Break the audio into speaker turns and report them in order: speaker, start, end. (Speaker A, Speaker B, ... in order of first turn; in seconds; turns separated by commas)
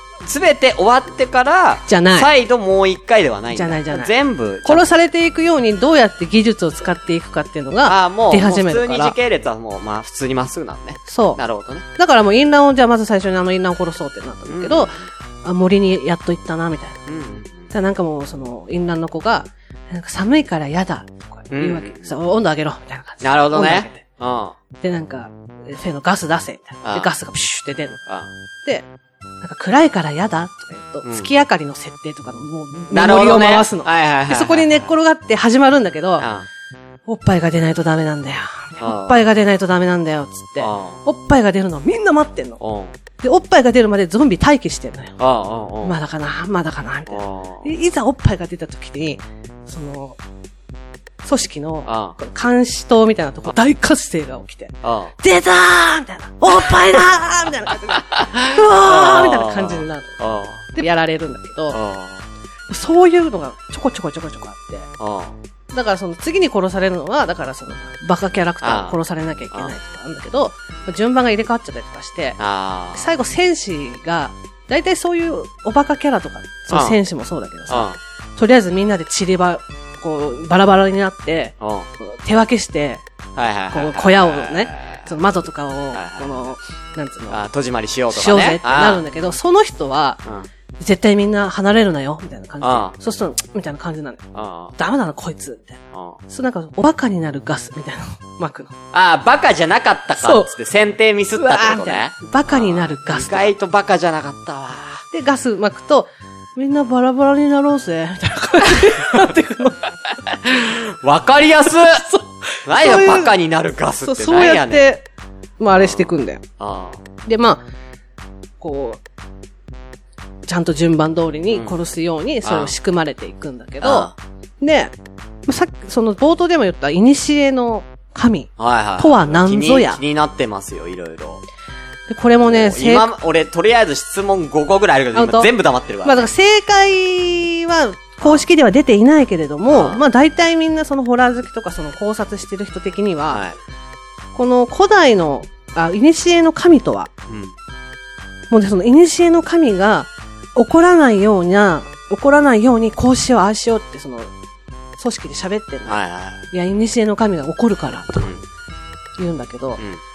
Speaker A: 0.2-4.9, Speaker B: 1.9-2.3, Speaker B: 3.5-9.2, Speaker A: 7.8-11.9, Speaker B: 11.1-11.4, Speaker B: 12.0-17.1, Speaker A: 14.5-15.1, Speaker A: 17.1-17.7, Speaker B: 17.7-24.0, Speaker A: 21.5-22.1, Speaker A: 23.2-24.6, Speaker B: 24.8-28.0, Speaker A: 26.8-27.1, Speaker B: 29.4-36.3, Speaker A: 31.0-31.3, Speaker A: 32.9-34.9, Speaker A: 36.2-36.5, Speaker B: 37.1-42.6, Speaker A: 38.8-39.2, Speaker A: 40.6-41.0, Speaker A: 42.6-42.9, Speaker B: 43.2-45.2, Speaker A: 45.2-46.0, Speaker B: 45.8-50.2, Speaker A: 47.1-47.7, Speaker B: 51.2-60.2, Speaker A: 51.9-52.2, Speaker A: 54.8-55.1, Speaker A: 56.5-57.0, Speaker A: 57.9-60.7, Speaker B: 60.7-61.8, Speaker A: 61.7-62.3, Speaker B: 62.7-64.9, Speaker A: 65.0-65.4, Speaker B: 65.7-72.4, Speaker A: 68.6-69.0, Speaker A: 72.4-73.1, Speaker B: 72.9-83.0, Speaker A: 76.7-77.0, Speaker A: 77.7-78.0, Speaker A: 81.6-81.9, Speaker A: 83.4-85.1, Speaker B: 83.7-87.4, Speaker A: 85.9-86.4, Speaker A: 87.3-89.0, Speaker B: 88.1-90.2, Speaker B: 90.8-94.2, Speaker A: 92.6-93.0, Speaker A: 94.3-94.7, Speaker B: 94.8-98.8, Speaker A: 95.9-96.2, Speaker A: 98.9-105.0, Speaker B: 100.2-100.5, Speaker B: 101.4-103.5, Speaker B: 105.1-109.8, Speaker A: 108.8-109.3, Speaker A: 110.4-112.0, Speaker B: 111.7-113.4, Speaker A: 112.7-114.9, Speaker B: 114.0-115.0, Speaker B: 115.6-116.4, Speaker A: 115.8-117.0, Speaker B: 117.3-117.6, Speaker B: 118.6-119.0, Speaker B: 120.5-124.1, Speaker A: 121.5-121.8, Speaker A: 122.4-122.7, Speaker A: 123.8-124.2, Speaker B: 124.6-124.9, Speaker B: 125.5-130.0, Speaker A: 128.6-131.4, Speaker B: 132.1-133.1, Speaker A: 132.4-136.3, Speaker B: 135.1-135.5, Speaker B: 136.0-143.4, Speaker A: 139.7-140.0, Speaker A: 143.3-143.6, Speaker B: 144.3-147.1, Speaker A: 147.3-147.6, Speaker B: 148.5-154.3, Speaker B: 155.0-156.0, Speaker A: 155.8-156.4, Speaker B: 156.5-158.3, Speaker B: 159.2-159.8